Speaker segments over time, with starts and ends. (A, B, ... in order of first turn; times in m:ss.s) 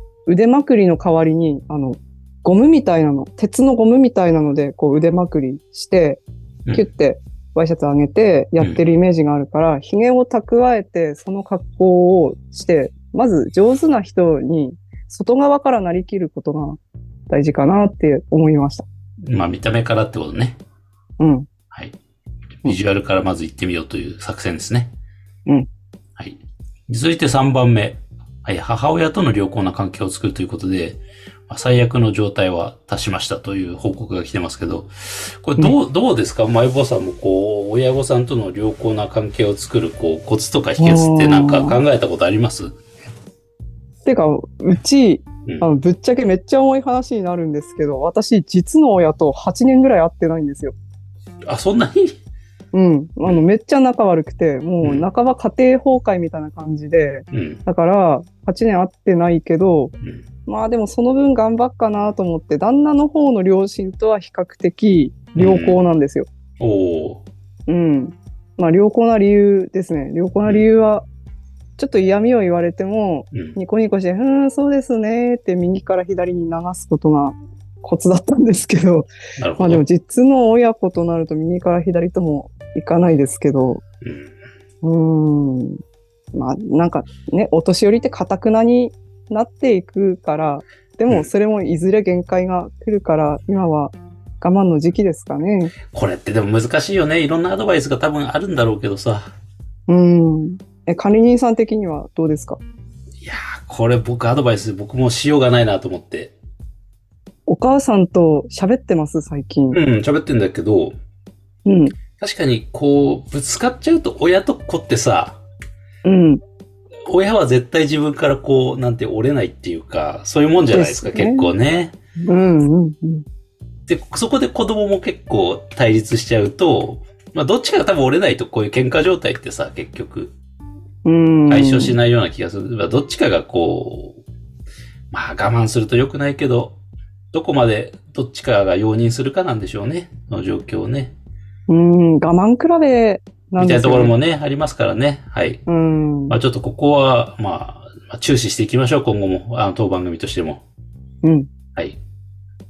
0:00.2-0:18.8 A
0:19.2-0:20.6 B
0:21.2-0:21.5 A
0:22.6-0:24.9 B
0:26.2-0:42.7 B
0:40.8-0:41.8 A
0:44.0-0:50.7 A
0:51.4-0:52.2 B
0:52.7-0:59.9 A
0:57.3-0:57.6 B
1:00.4-1:06.3 A
1:05.4-1:05.8 B
1:06.6-1:07.2 B
1:07.7-1:11.0 A
1:11.8-1:23.8 A
1:19.4-1:19.8 B
1:24.0-1:24.3 B
1:24.8-1:25.8 A
1:26.3-1:35.7 A
1:35.9-1:39.3 B
1:39.9-1:42.6 A
1:43.2-1:46.3 B
1:47.5-1:49.8 A
1:49.7-1:50.9 B
1:51.6-1:51.9 A
1:52.2-1:55.4 B
1:56.0-1:56.4 A
1:57.1-2:01.9 B
2:00.7-2:01.5 A
2:02.2-2:03.2 A
2:03.9-2:10.3 B
2:11.0-2:12.0 A
2:11.5-2:14.2 B
2:15.1-2:16.8 B
2:17.3-2:21.1 B
2:21.7-2:24.1 A
2:23.6-2:25.6 B
2:25.7-2:26.4 A
2:26.3-2:30.6 B
2:31.2-2:31.5 A